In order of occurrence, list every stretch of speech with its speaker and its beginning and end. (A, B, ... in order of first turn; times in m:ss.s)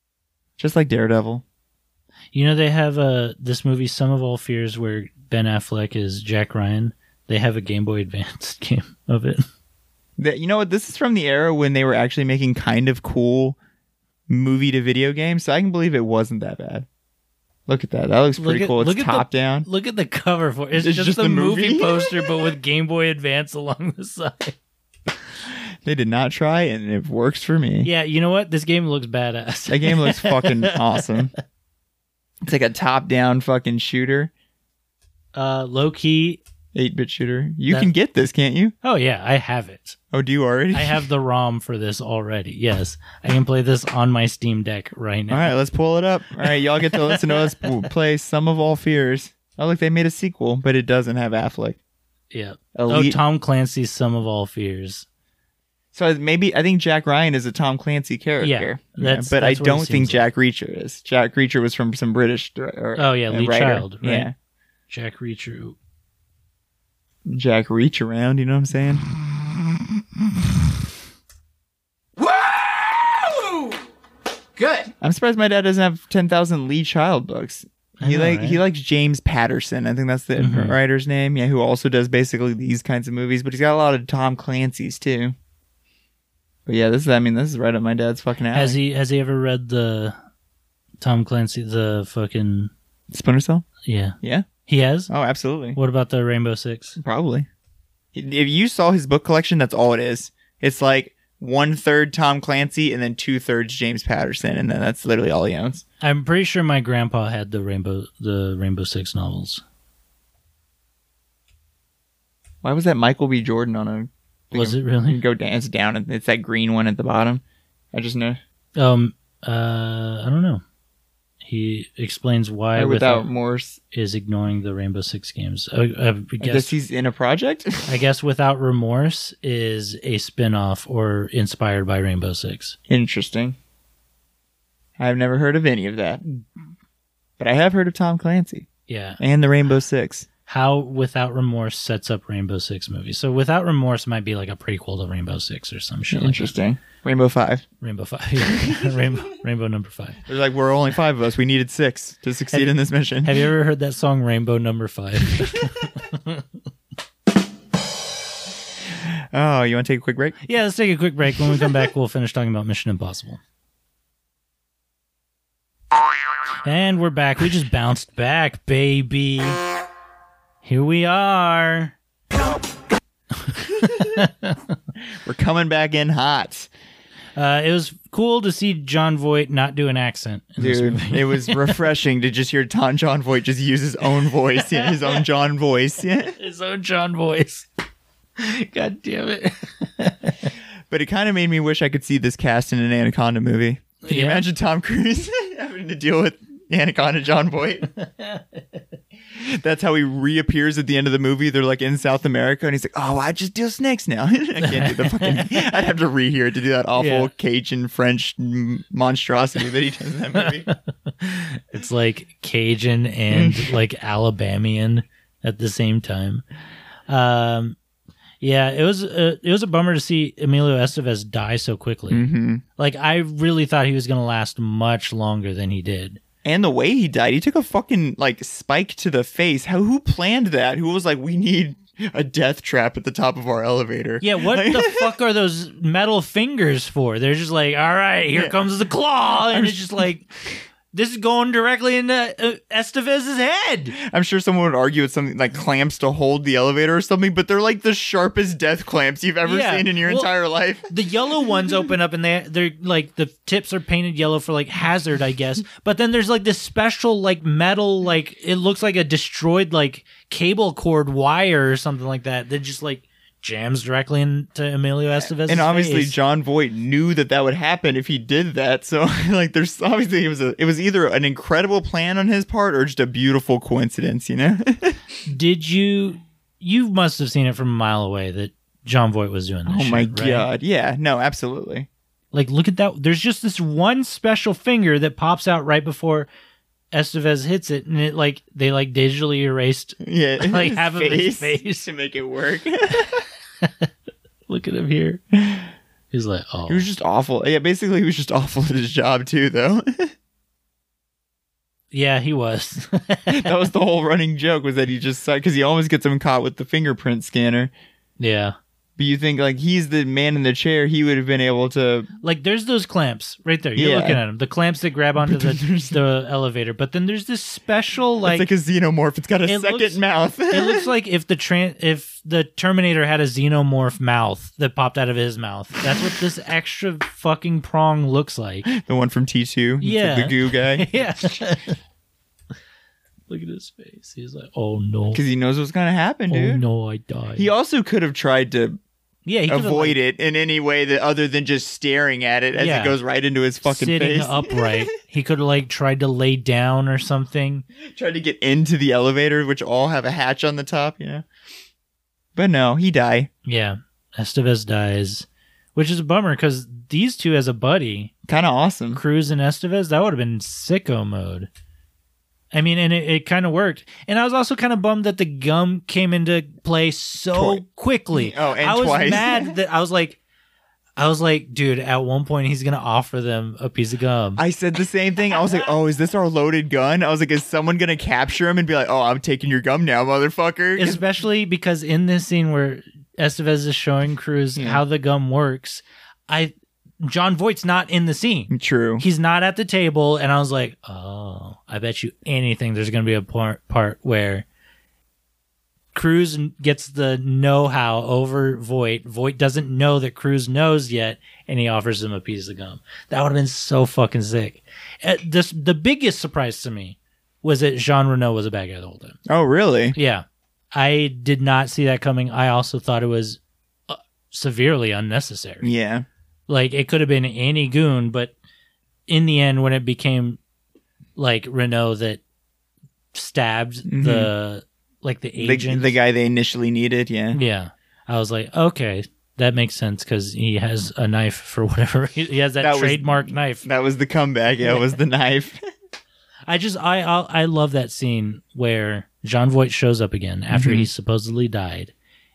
0:00.6-0:01.4 A
0:02.3-0:09.4 B
0:10.2-0:13.6 A
0:14.3-0:16.9 A
0:17.7-0:19.7 A
0:18.4-0:24.6 B
0:20.8-0:22.4 A
0:25.8-0:27.9 A
0:27.8-0:31.3 B
0:29.7-0:31.3 A
0:32.4-0:34.3 A
0:35.3-0:36.4 B
0:36.7-0:38.7 A
0:38.8-0:40.0 B
0:40.1-0:41.0 A
0:40.7-0:45.5 B
0:45.3-0:51.8 A
0:52.3-0:55.0 B
0:52.7-0:53.2 A
0:55.9-1:04.3 A
0:58.4-1:00.2 B
1:03.0-1:04.3 B
1:04.9-1:05.8 B
1:07.2-1:09.0 A
1:12.2-1:13.8 C
1:14.6-1:14.9 C
1:15.0-1:25.3 A
1:18.0-1:18.6 B
1:20.4-1:20.8 B
1:26.6-1:28.8 A
1:28.5-1:30.2 B
1:31.0-1:32.7 B
1:33.1-1:33.7 A
1:33.8-1:35.1 B
1:34.2-1:34.5 A
1:35.1-1:35.8 A
1:35.7-1:37.0 B
1:37.0-1:37.5 A
1:38.1-1:45.8 A
1:46.0-1:49.6 B
1:52.6-1:57.4 A
1:54.5-1:55.2 B
1:57.9-1:58.4 A
1:58.8-2:00.6 B
2:01.4-2:03.3 B
2:02.7-2:03.8 A
2:03.9-2:06.8 B
2:06.4-2:07.9 A
2:07.8-2:12.8 B
2:12.9-2:13.6 A
2:15.0-2:16.2 A
2:17.4-2:18.7 A
2:18.9-2:19.2 B
2:19.2-2:20.3 A
2:20.5-2:26.5 B
2:26.1-2:27.6 A
2:27.8-2:30.2 B
2:28.5-2:29.0 A
2:30.3-2:33.4 A
2:32.5-2:36.4 B
2:39.3-2:40.4 A
2:40.4-2:43.4 B
2:46.6-2:49.6 B
2:50.6-2:51.9 B
2:53.4-2:54.6 B
2:55.2-2:56.7 A
2:57.4-3:01.8 B
3:00.6-3:06.4 A
3:04.7-3:05.2 B
3:06.4-3:07.7 B
3:08.4-3:10.5 B
3:10.9-3:17.9 A
3:14.0-3:14.4 B
3:18.0-3:18.4 B
3:19.3-3:30.7 A
3:24.6-3:25.7 B
3:27.0-3:27.3 B
3:30.4-3:36.4 B
3:33.3-3:33.8 A
3:37.1-3:37.8 B
3:38.4-3:42.2 B
3:42.1-3:42.6 A
3:42.8-3:46.2 B
3:46.4-3:55.1 A
3:54.2-4:00.3 B
3:58.3-3:58.6 A
3:59.5-4:00.0 A
4:00.9-4:04.0 B
4:04.0-4:10.9 A
4:09.4-4:10.3 B
4:10.9-4:26.1 B
4:25.2-4:35.0 A
4:35.2-4:40.5 B
4:39.6-4:41.9 A
4:42.3-4:46.3 B
4:46.9-4:51.9 B
4:50.0-4:53.2 A
4:54.5-4:55.2 B
4:55.3-4:55.7 A
4:56.1-4:56.8 B
4:56.7-5:00.1 A
5:01.9-5:03.5 B
5:03.3-5:07.7 A
5:08.2-5:08.6 B
5:09.0-5:12.1 A
5:12.2-5:18.5 B
5:13.8-5:14.2 A
5:15.2-5:16.0 A
5:18.2-5:20.9 A
5:19.4-5:28.7 B
5:28.6-5:31.3 A
5:29.8-5:31.8 B
5:33.3-5:35.2 B
5:35.1-5:36.6 A
5:36.3-5:37.5 B
5:37.4-5:38.8 A
5:39.2-5:40.0 B
5:39.5-5:44.8 A
5:42.5-5:43.0 B
5:43.6-5:47.6 B
5:47.8-5:51.2 A
5:52.3-5:53.3 A
5:53.4-5:58.1 B
5:58.3-5:59.0 A
5:58.9-6:01.5 B
6:02.5-6:10.2 B
6:07.3-6:09.5 A
6:11.0-6:14.4 B
6:14.4-6:21.0 A
6:20.8-6:34.4 B
6:24.6-6:24.8 A
6:28.5-6:29.0 A
6:35.9-6:49.2 B
6:49.3-6:50.0 A
6:49.9-6:55.7 B
6:55.6-6:56.0 A
6:56.5-6:58.3 B
6:59.1-7:00.4 B
7:01.2-7:02.2 B
7:03.1-7:05.9 B
7:03.8-7:04.3 A
7:05.4-7:07.4 A
7:07.3-7:13.6 B
7:12.6-7:15.6 A
7:16.5-7:21.9 B
7:20.5-7:20.9 A